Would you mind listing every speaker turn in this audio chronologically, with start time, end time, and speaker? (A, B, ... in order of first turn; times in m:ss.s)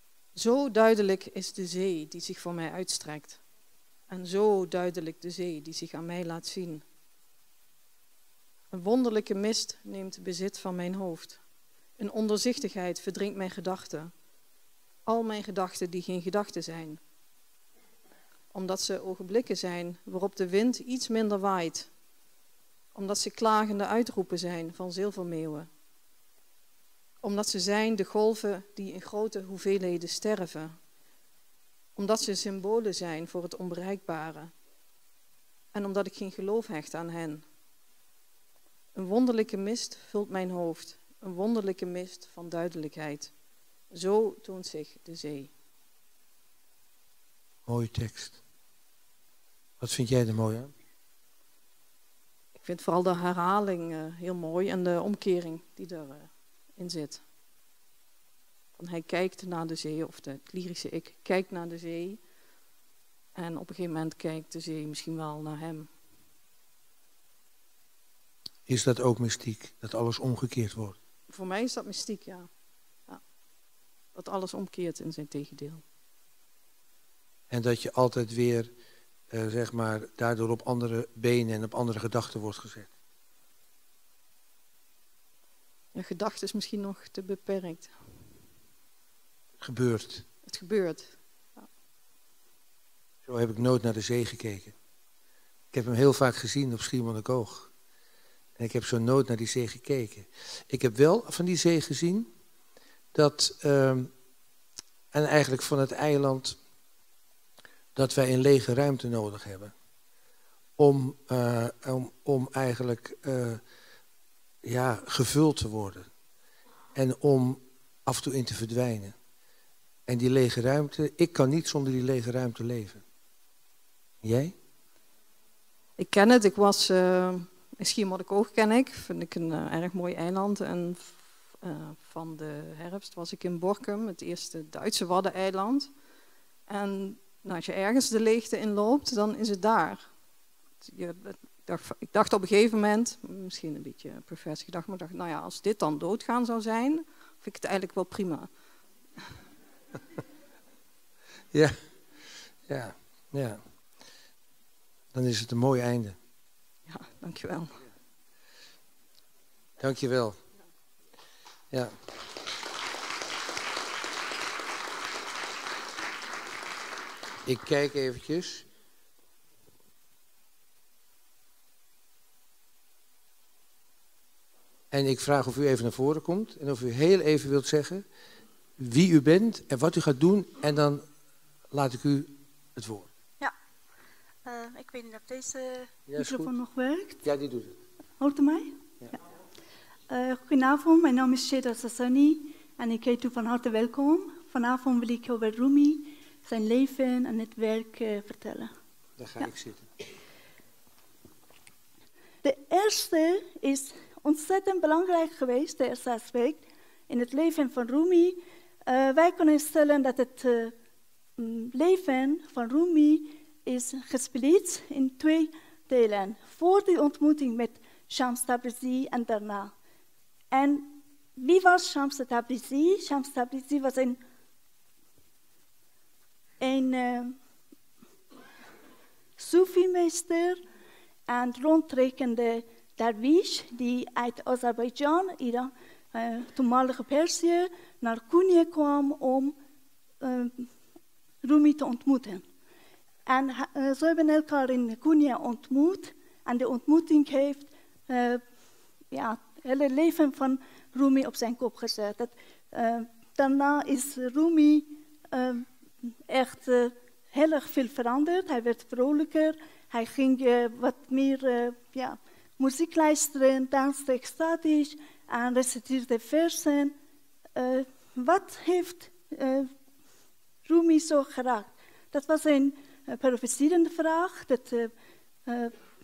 0:00.3-0:03.4 A
0:04.1-0:06.8 A
0:08.7-0:11.4 A
0:12.0-0:14.1 A
0:15.0-0:17.0 A
0:18.5-0:21.9 A
0:22.9-0:25.7 A
0:27.2-0:30.8 A
0:32.0-0:34.5 A
0:35.7-0:37.4 A
0:38.9-0:43.3 A
0:43.9-0:45.5 A
0:47.6-0:48.4 B
0:49.8-0:50.7 B
0:52.6-0:57.2 A
0:58.8-1:02.2 A
1:03.3-1:05.9 A
1:08.7-1:11.0 B
1:11.3-1:12.5 A
1:14.1-1:15.8 A
1:17.5-1:18.7 B
1:19.3-1:22.9 B
1:25.9-1:27.9 A
1:29.6-1:30.2 B
1:30.4-1:31.7 A
1:33.2-1:34.7 B
1:35.7-1:37.7 B
1:38.6-1:42.3 B
1:43.1-1:44.1 B
1:45.1-1:46.6 B
1:47.9-1:49.7 B
1:50.8-1:53.6 B
1:54.6-1:56.1 B
1:56.9-1:59.1 B
2:00.1-2:03.0 B
2:04.2-2:04.5 B
2:06.0-2:15.9 A
2:16.7-2:20.0 A
2:20.8-2:28.5 A
2:31.5-2:31.8 B
2:32.6-2:33.6 B
2:35.1-2:36.2 B
2:36.9-2:37.8 A
2:39.8-2:40.4 B
2:47.4-2:48.6 B
2:54.9-2:58.0 B
2:58.8-3:01.0 B
3:01.7-3:03.1 B
3:04.4-3:07.2 C
3:06.1-3:06.5 B
3:07.2-3:07.8 B
3:08.2-3:08.8 C
3:10.1-3:18.7 C
3:19.2-3:19.8 B
3:22.4-3:30.7 C
3:31.4-3:39.7 C
3:40.5-3:44.2 C
3:46.6-3:47.4 C
3:49.4-3:50.6 C
3:51.3-3:59.6 C
4:00.2-4:00.7 C
4:01.4-4:02.4 C
4:03.3-4:08.4 C
4:09.1-4:26.9 C
4:27.6-4:29.7 C
4:30.6-4:34.9 C
4:35.5-4:35.7 C